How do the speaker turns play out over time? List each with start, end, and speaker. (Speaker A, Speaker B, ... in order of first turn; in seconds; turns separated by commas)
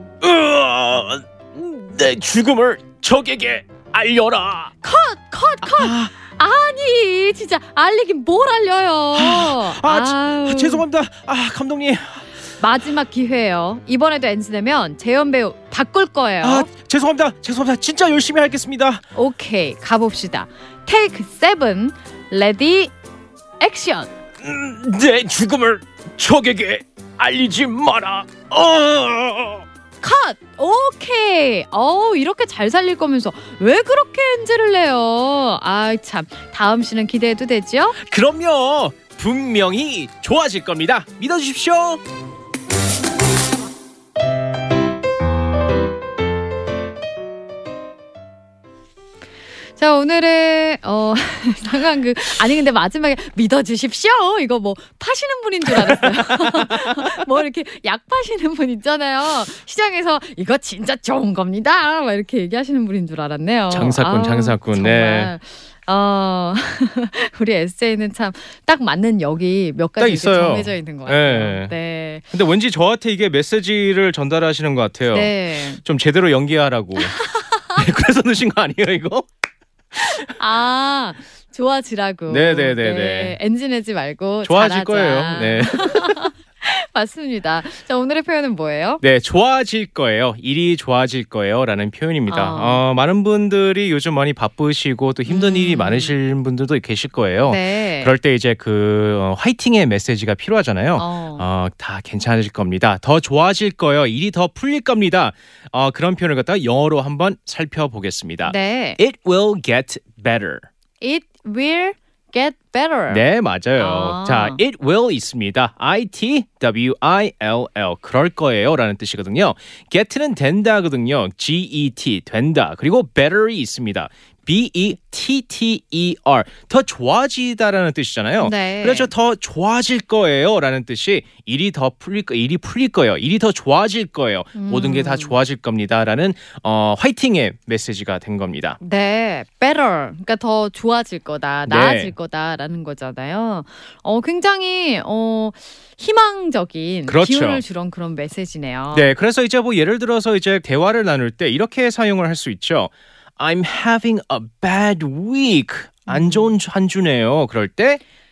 Speaker A: 0.2-4.7, Speaker B: 4.8-10.8, Speaker A: 5.6-6.1, Speaker A: 9.1-12.2, Speaker B: 12.6-16.7, Speaker A: 16.4-19.0, Speaker B: 19.1-22.9, Speaker B: 23.6-24.1, Speaker A: 24.4-29.6, Speaker B: 30.0-37.9, Speaker A: 38.0-42.0, Speaker B: 49.8-72.3, Speaker A: 55.8-57.2, Speaker A: 63.7-65.3, Speaker A: 70.0-71.7, Speaker A: 72.3-77.2, Speaker B: 75.1-75.8, Speaker B: 77.0-77.8, Speaker A: 77.7-79.3, Speaker B: 80.0-89.0, Speaker A: 82.3-83.4, Speaker A: 84.4-86.2, Speaker A: 89.0-110.7, Speaker B: 92.3-92.8, Speaker B: 95.2-96.1, Speaker B: 97.4-98.1, Speaker B: 101.0-101.5, Speaker B: 108.4-109.0, Speaker B: 111.0-113.2, Speaker A: 113.1-138.8, Speaker B: 113.8-114.6, Speaker B: 128.4-129.1, Speaker B: 134.5-135.4, Speaker B: 138.8-149.1, Speaker A: 141.7-142.1, Speaker A: 147.1-147.6, Speaker A: 148.9-158.0, Speaker B: 156.1-156.5